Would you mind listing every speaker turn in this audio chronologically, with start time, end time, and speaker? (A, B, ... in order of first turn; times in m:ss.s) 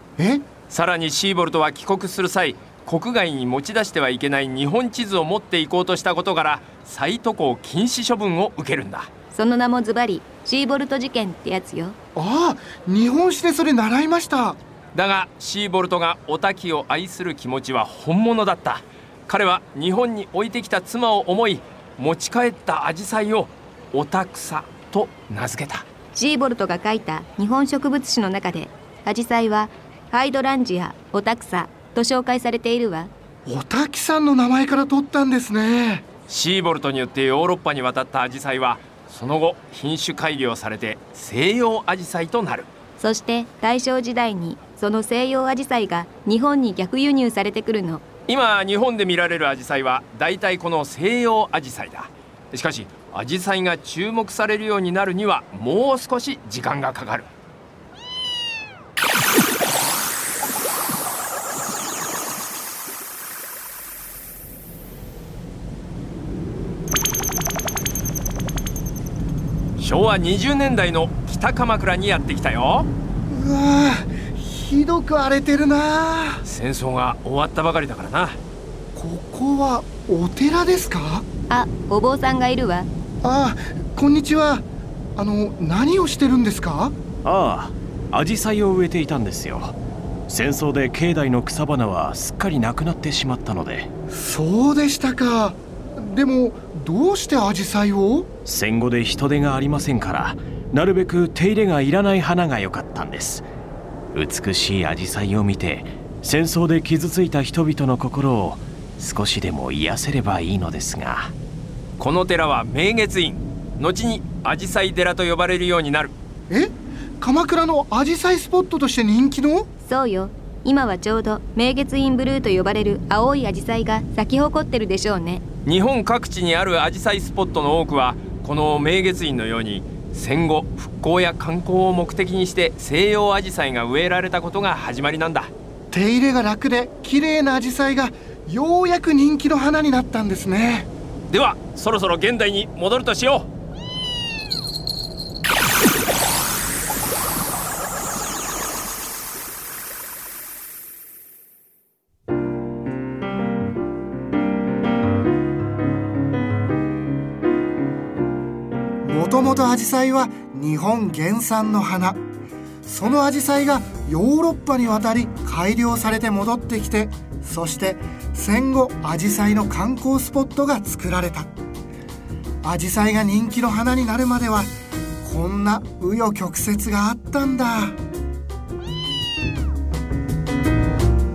0:00.2-0:00.4 A
0:00.7-0:09.1 B
0:09.3-0:12.0 C
0:12.1-0:14.6 A
0:14.9-0:25.8 B
0:26.1-0:33.1 C
0:33.4-0:36.0 A
0:36.3-0:42.7 B
0:43.0-0:48.0 C
0:48.3-0:57.3 B
1:09.8-1:12.9 B
1:13.3-1:16.4 A
1:16.4-1:18.4 B
1:18.9-1:21.2 A
1:21.5-1:22.9 C
1:23.2-1:24.6 A
1:25.2-1:26.9 A
1:27.2-1:29.8 D
1:30.3-1:33.9 D
1:34.1-1:38.3 A
1:38.4-1:43.4 D
1:44.1-1:51.3 D
1:52.0-1:56.1 B
1:56.5-1:59.7 A
1:59.8-2:05.4 C
2:05.6-2:15.5 B
2:15.9-2:20.9 A
2:21.3-2:23.5 B
2:39.0-2:42.2 A
2:42.8-2:51.5 A
2:52.6-2:54.7 A
2:55.2-2:58.0 A